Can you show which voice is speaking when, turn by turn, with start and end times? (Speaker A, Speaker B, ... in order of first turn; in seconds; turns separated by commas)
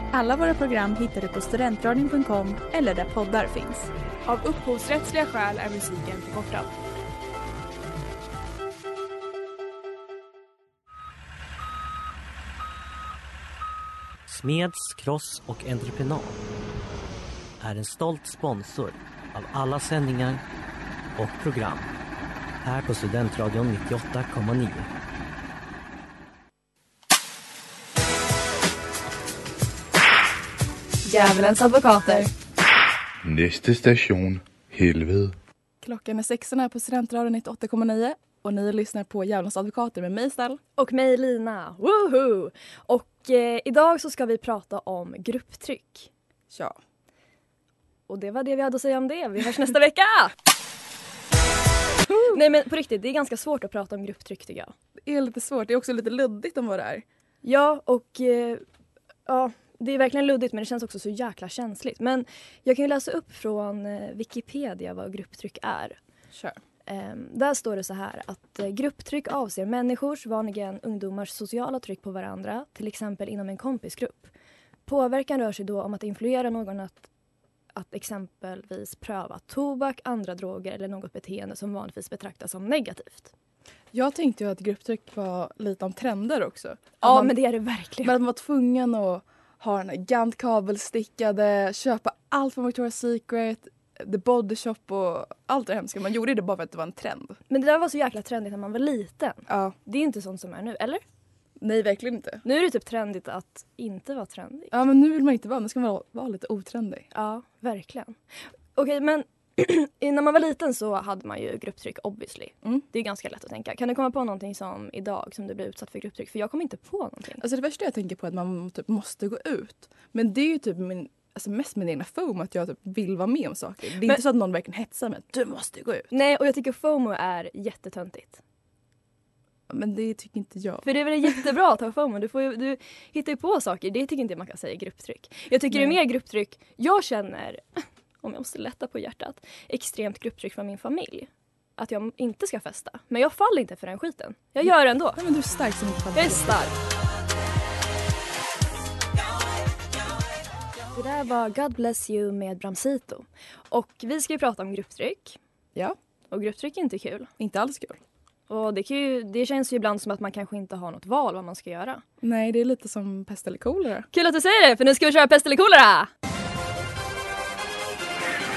Speaker A: 0.1-3.9, Speaker B: 4.2-6.7, Speaker C: 14.3-16.4, Speaker C: 17.6-20.4, Speaker C: 21.2-21.9, Speaker C: 22.6-24.9, Speaker D: 31.1-32.3, Speaker E: 33.2-35.4, Speaker F: 35.8-40.6, Speaker D: 40.8-46.1, Speaker F: 46.5-46.8, Speaker D: 48.1-50.3, Speaker F: 52.0-52.4, Speaker D: 52.3-54.7, Speaker F: 55.0-57.0, Speaker D: 57.4-58.6, Speaker D: 59.3-66.0, Speaker F: 66.3-66.6, Speaker D: 66.9-74.3, Speaker D: 74.9-77.1, Speaker D: 77.7-83.3, Speaker F: 83.9-87.3, Speaker D: 87.0-88.2, Speaker F: 88.0-97.4, Speaker D: 97.5-101.0, Speaker F: 99.5-99.8, Speaker F: 101.6-102.5, Speaker D: 102.4-104.7, Speaker F: 104.7-107.1, Speaker D: 107.1-108.2, Speaker D: 108.8-117.4, Speaker F: 117.4-126.1, Speaker D: 126.1-128.4, Speaker F: 129.7-131.4, Speaker D: 130.8-145.2, Speaker F: 144.6-146.7, Speaker D: 146.2-146.8, Speaker D: 150.9-155.4, Speaker D: 156.3-157.3, Speaker F: 157.4-158.0, Speaker D: 158.5-162.0, Speaker F: 162.2-164.1, Speaker D: 164.1-166.1